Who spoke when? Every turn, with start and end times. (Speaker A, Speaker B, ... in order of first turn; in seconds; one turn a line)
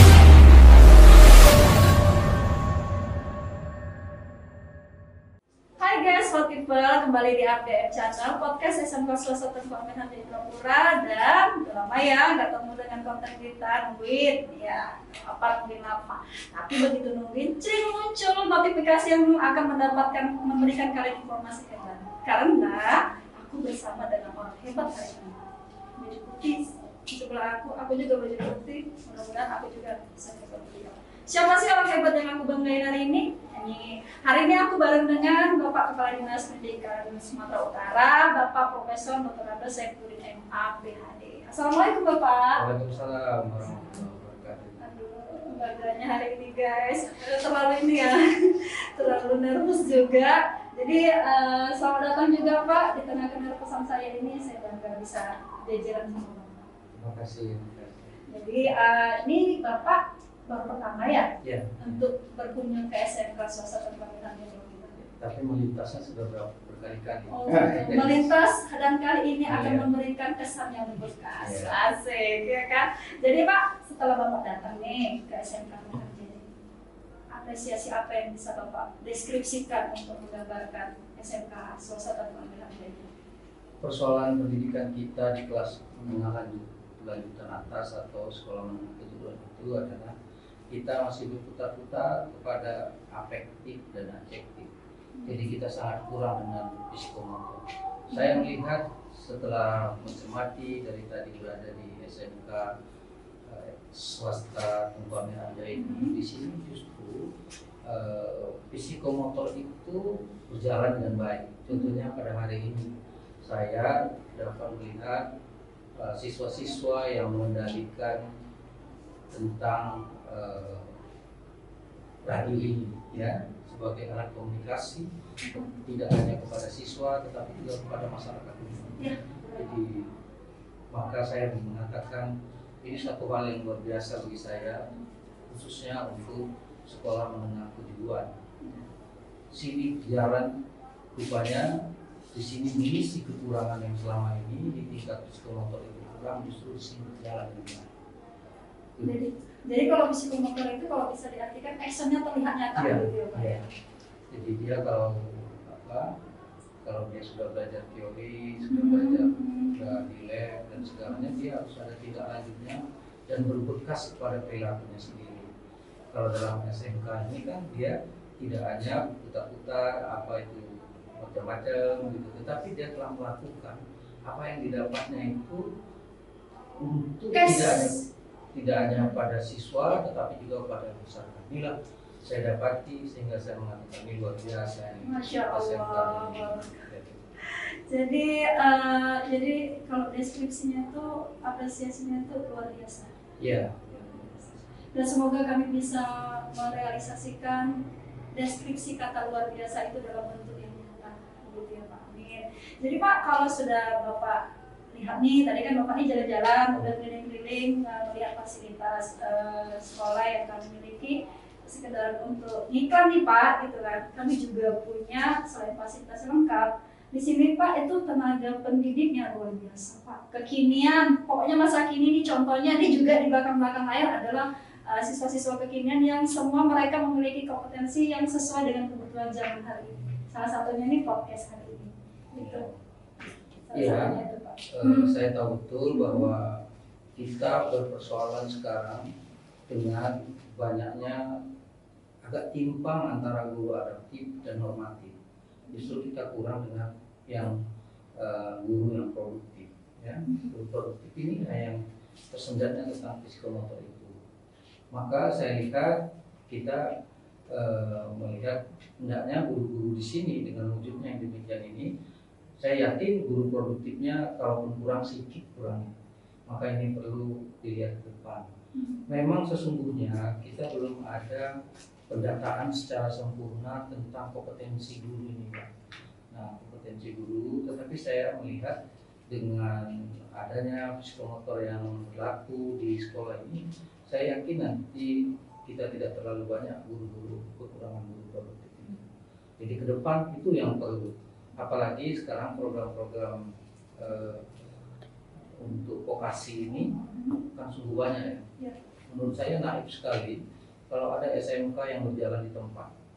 Speaker A: 5.8-42.6
Speaker B: 42.5-44.8
Speaker A: 44.8-56.7
Speaker B: 56.9-58.1
Speaker A: 58.2-65.0
Speaker B: 61.4-62.0
Speaker B: 65.0-68.3
Speaker A: 67.3-76.5
Speaker B: 69.5-69.9
Speaker B: 71.4-71.8
Speaker A: 77.3-83.1
Speaker B: 83.8-90.1
Speaker B: 90.7-94.7
Speaker A: 95.2-95.4
Speaker B: 95.2-102.7
Speaker A: 98.1-98.5
Speaker B: 103.5-107.3
Speaker A: 105.7-106.1
Speaker B: 107.8-112.9
Speaker A: 111.7-112.0
Speaker B: 113.4-115.3
Speaker B: 116.0-118.3
Speaker B: 119.3-121.0
Speaker B: 122.2-130.1
Speaker A: 125.4-125.8
Speaker A: 129.0-129.7
Speaker B: 130.9-134.8
Speaker B: 135.5-138.3
Speaker B: 139.5-140.5
Speaker B: 141.1-141.7
Speaker B: 142.3-147.9
Speaker A: 149.0-153.7
Speaker B: 152.8-153.6
Speaker B: 154.3-156.1
Speaker B: 156.8-165.5
Speaker A: 158.7-159.8
Speaker A: 161.0-161.3
Speaker B: 166.1-175.6
Speaker B: 176.8-178.0
Speaker A: 177.3-178.0
Speaker B: 178.5-187.2
Speaker A: 178.8-179.2
Speaker A: 185.0-186.8
Speaker A: 187.4-193.1
Speaker B: 193.4-194.2
Speaker A: 193.9-197.8
Speaker A: 198.3-232.6
Speaker B: 232.3-232.7
Speaker A: 233.6-235.1
Speaker B: 233.7-234.2
Speaker B: 234.7-236.6
Speaker A: 235.9-236.3
Speaker B: 237.2-239.1
Speaker B: 239.7-241.4
Speaker B: 242.2-245.2
Speaker A: 245.7-246.0
Speaker B: 245.7-247.6
Speaker B: 248.2-251.8
Speaker A: 250.2-250.5
Speaker B: 252.3-254.1
Speaker B: 254.9-256.8
Speaker B: 257.5-261.9
Speaker B: 262.6-265.9
Speaker B: 266.5-268.5
Speaker A: 268.8-269.0
Speaker B: 269.1-271.5
Speaker B: 272.1-275.7
Speaker B: 276.3-278.8
Speaker B: 279.3-289.0
Speaker B: 289.6-293.4
Speaker B: 294.0-294.4
Speaker B: 295.5-296.9
Speaker A: 297.1-297.4
Speaker B: 297.5-298.4
Speaker B: 299.1-302.9